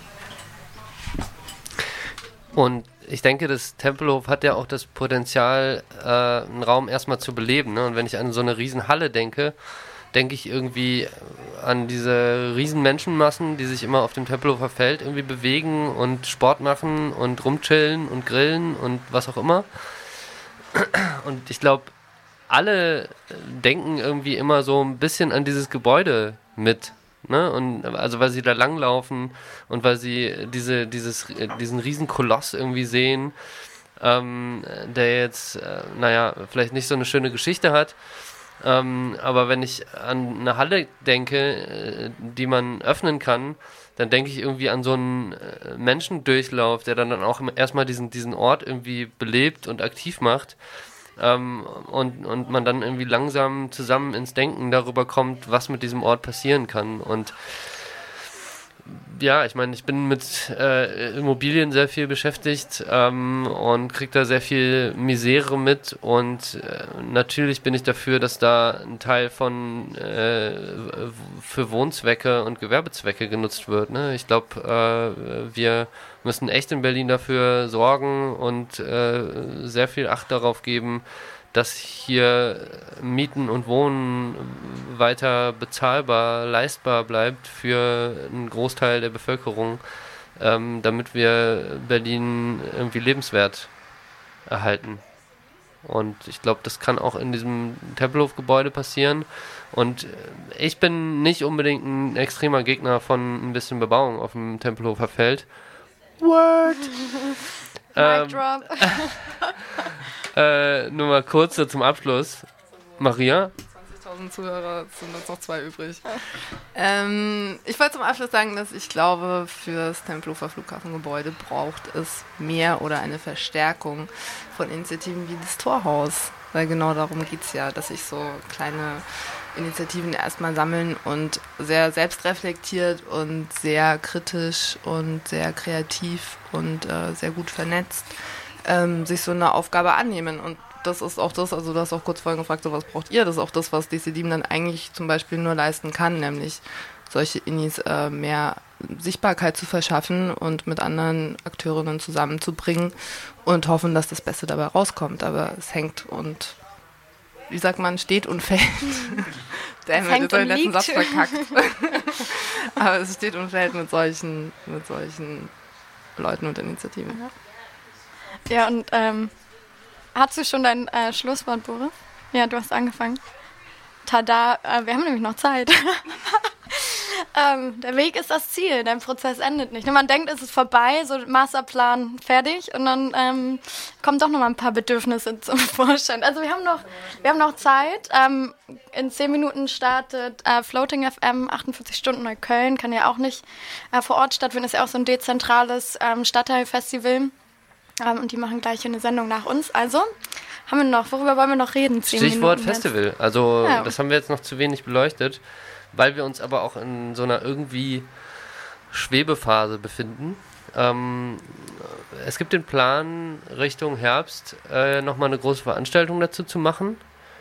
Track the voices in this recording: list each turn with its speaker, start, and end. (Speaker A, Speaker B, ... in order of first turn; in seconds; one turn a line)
Speaker A: 2.5-20.2
Speaker A: 20.8-21.9
Speaker A: 22.5-58.0
Speaker A: 58.9-93.8
Speaker A: 94.5-95.1
Speaker A: 95.8-105.5
Speaker A: 106.2-107.1
Speaker A: 108.0-109.1
Speaker B: 108.0-109.4
Speaker A: 110.3-113.5
Speaker C: 113.8-116.2
Speaker C: 116.7-138.1
Speaker C: 138.6-156.6
Speaker C: 157.5-165.5
Speaker B: 160.0-161.6
Speaker C: 166.2-167.2
Speaker B: 168.5-169.3
Speaker B: 170.2-173.2
Speaker B: 174.1-197.3
Speaker B: 198.0-200.1
Speaker B: 200.7-202.9
Speaker A: 202.1-208.1
Speaker B: 203.6-203.9
Speaker A: 208.9-217.0